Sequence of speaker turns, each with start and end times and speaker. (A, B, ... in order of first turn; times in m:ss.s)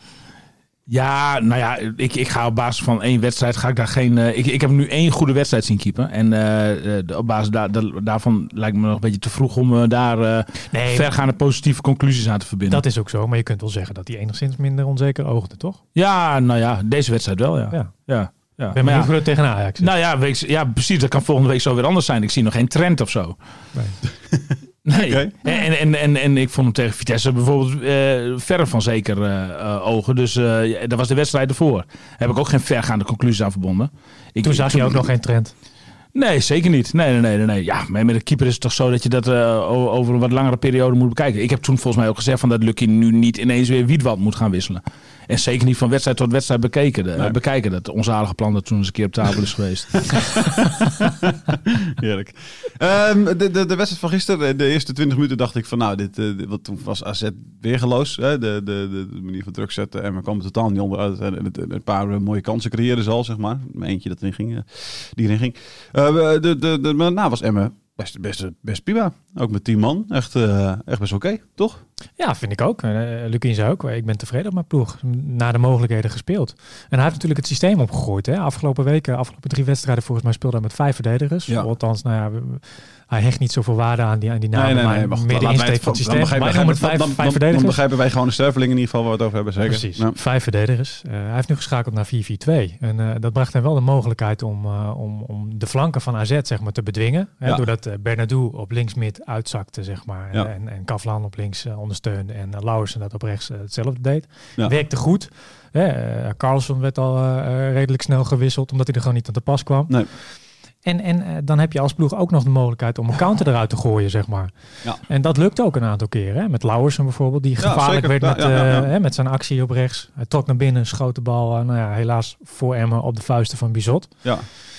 0:00.9-0:12.8 A
0:10.7-0:11.1 B
0:12.7-0:15.8 B
0:15.9-0:19.1 A
0:18.7-0:19.9 B
0:19.8-0:23.4 A
0:24.8-0:35.0 A
0:24.9-0:25.3 C
0:34.4-0:35.5 B
0:36.1-0:50.7 A
0:50.1-1:11.8 C
1:12.2-1:27.8 B
1:24.5-1:30.1 C
1:29.6-1:50.0 B
1:50.8-1:54.5 B
1:55.0-2:04.1 B
1:57.6-1:58.9 C